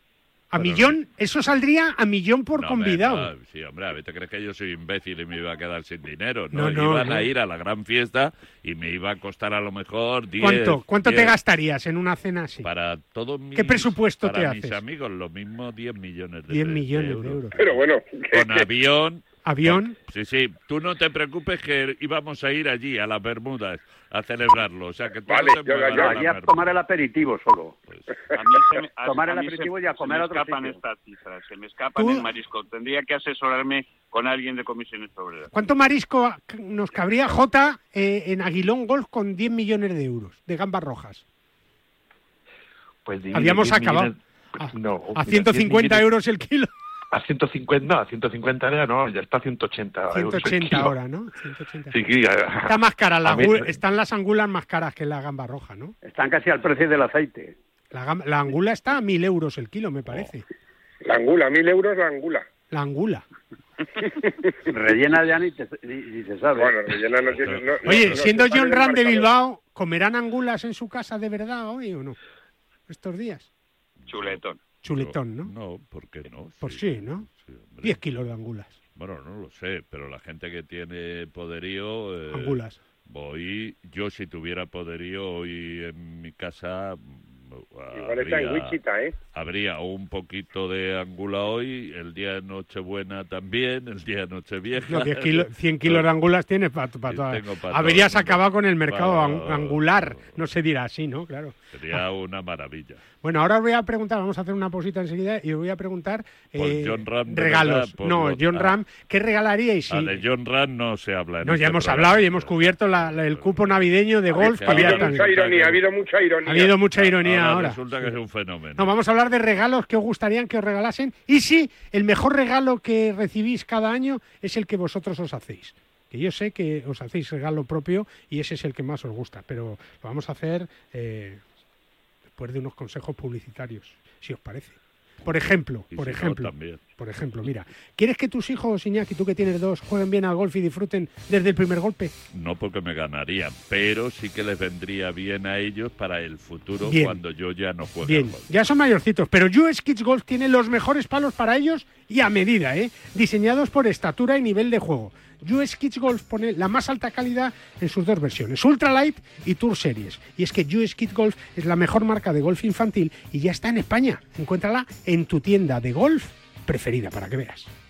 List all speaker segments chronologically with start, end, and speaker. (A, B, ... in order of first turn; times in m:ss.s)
0:00.5-0:03.3 A
0:00.6-0:01.0 B
0:02.6-0:11.4 B
0:06.5-0:07.3 A
0:10.4-0:12.7 A
0:12.6-0:17.8 B
0:13.5-0:14.8 A
0:16.5-0:17.6 A
0:17.6-0:18.6 C
0:18.3-0:26.7 B
0:19.4-0:19.9 A
0:25.3-0:26.2 C
0:25.9-0:27.8 D
0:28.3-0:35.5 E
0:29.0-0:30.8 D
0:32.0-0:32.3 A
0:35.5-0:41.2 A
0:43.0-0:46.1 F
0:43.3-0:46.7 A
0:47.1-0:50.9 F
0:50.1-0:51.9 A
0:51.9-0:53.7 F
0:52.6-0:55.9 A
0:56.0-0:57.5 D
0:57.9-1:00.4 A
1:01.0-1:02.4 C
1:02.7-1:03.2 A
1:04.7-1:06.9 D
1:06.6-1:09.3 C
1:07.4-1:08.2 B
1:07.8-1:12.2 A
1:12.9-1:13.5 A
1:14.0-1:14.4 B
1:14.1-1:14.6 E
1:14.8-1:15.5 A
1:14.9-1:18.0 B
1:16.6-1:17.2 A
1:17.8-1:18.7 A
1:19.0-1:28.8 B
1:22.3-1:22.8 A
1:27.9-1:29.1 C
1:29.3-1:36.1 B
1:34.9-1:42.0 A
1:37.1-1:40.4 B
1:41.7-1:43.0 B
1:43.2-1:50.2 A
1:46.6-1:48.8 B
1:49.9-1:55.8 B
1:51.4-1:55.3 A
1:54.6-1:56.7 C
1:56.4-1:58.1 A
1:56.9-1:58.9 B
1:58.8-2:11.4 A
2:12.3-2:22.1 A
2:15.9-2:16.8 B
2:22.3-2:28.4 B
2:26.8-2:27.2 A
2:28.0-2:47.7 A